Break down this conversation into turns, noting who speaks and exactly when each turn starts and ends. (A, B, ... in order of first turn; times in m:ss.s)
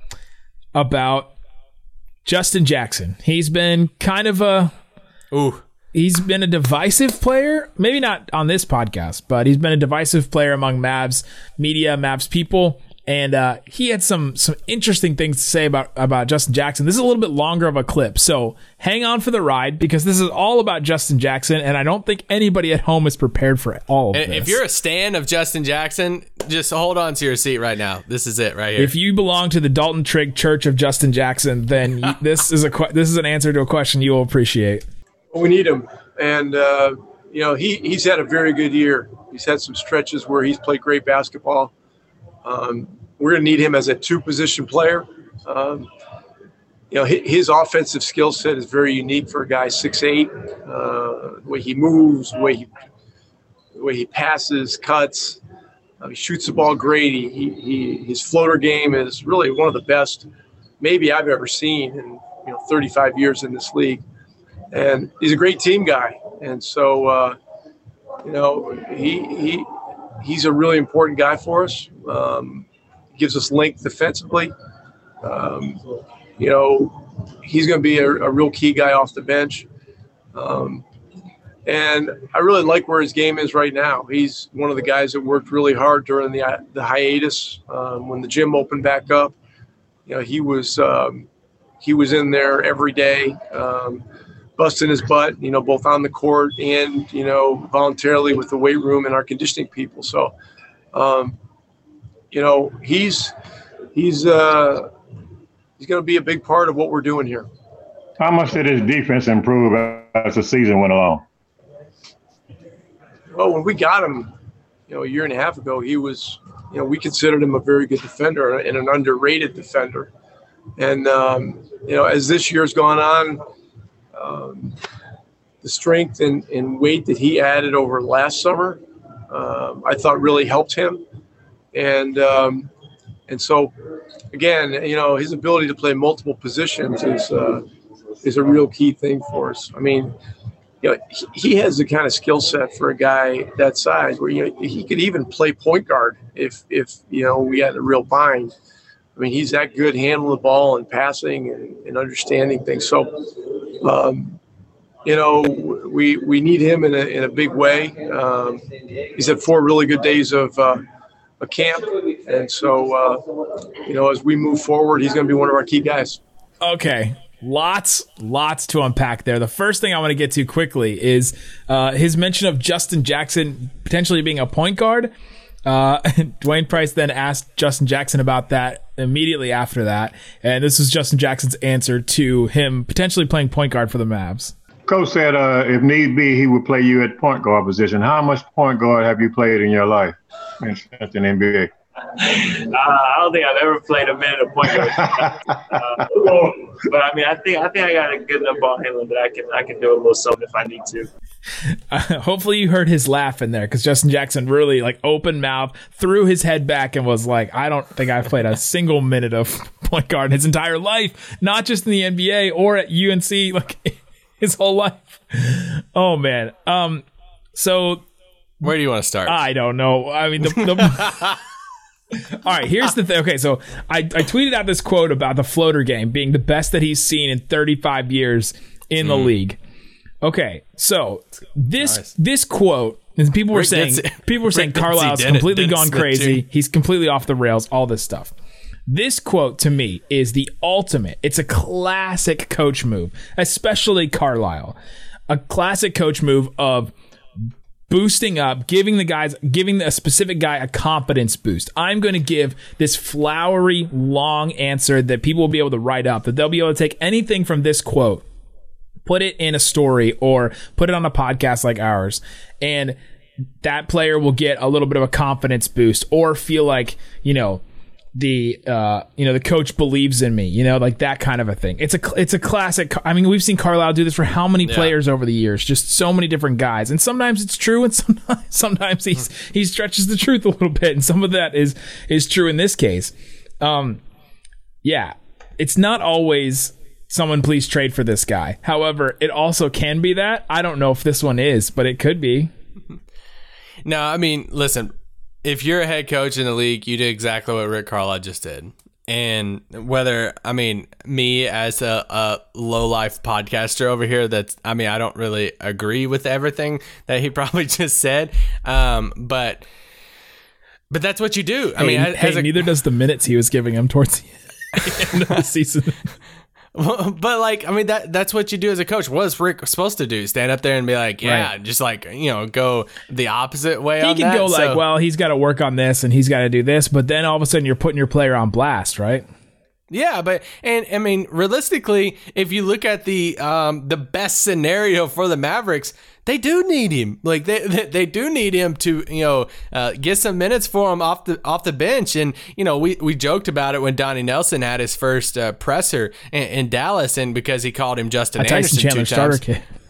0:00.7-0:01.3 A
0:02.2-0:04.7 A
0:05.3-0:05.6 B
0:05.9-0:24.6 A
0:24.1-0:28.9 B
0:28.8-0:34.8 A
0:35.3-0:41.7 C
0:42.4-0:45.9 C
0:46.9-0:52.7 C
0:53.7-0:55.4 C
0:56.0-1:00.3 C
1:00.8-1:04.0 C
1:04.7-1:07.4 C
1:08.2-1:09.7 C
1:10.2-1:14.5 C
1:15.2-1:15.8 C
1:16.4-1:19.7 C
1:20.3-1:20.8 C
1:21.6-1:29.3 C
1:30.0-1:31.3 C
1:31.8-1:34.0 C
1:34.6-1:40.3 C
1:40.9-1:41.4 C
1:42.3-1:43.3 C
1:43.9-1:44.9 C
1:45.8-1:47.5 C
1:48.2-1:51.2 D
1:53.3-1:54.3 C
1:54.9-2:00.1 C
2:00.8-2:03.4 C
2:04.1-2:04.8 C
2:05.6-2:11.0 C
2:11.7-2:12.7 C
2:13.3-2:13.7 C
2:14.3-2:17.6 C
2:18.2-2:20.1 C
2:20.8-2:28.5 C
2:29.2-2:33.2 C
2:33.8-2:34.4 C
2:35.0-2:38.6 C
2:39.1-2:40.8 C
2:41.4-2:43.3 C
2:43.8-2:46.2 C
2:46.6-2:55.1 A
2:55.6-3:04.5 A
3:04.9-3:11.7 D
3:12.2-3:21.1 E
3:21.9-3:37.0 A
3:37.6-3:38.0 A
3:38.6-3:39.4 B
3:39.2-3:41.2 A
3:40.4-3:41.4 B
3:42.3-3:49.6 A
3:49.0-3:49.3 B
3:50.2-3:58.3 A
3:51.8-3:52.1 B
3:53.5-3:56.4 B
3:58.9-4:04.8 A
4:05.3-4:06.9 A
4:07.9-4:18.2 A
4:19.0-4:23.0 A
4:23.6-4:27.6 A
4:28.1-4:44.0 A
4:34.6-4:34.9 B
4:44.8-4:52.5 A
4:53.8-4:54.9 B
4:55.4-5:09.6 B
5:10.9-5:12.5 B
5:11.8-5:16.1 A
5:14.8-5:15.3 B
5:16.7-5:24.8 B
5:21.2-5:21.5 A
5:24.0-5:29.2 A
5:29.9-5:49.4 B
5:48.4-5:49.6 A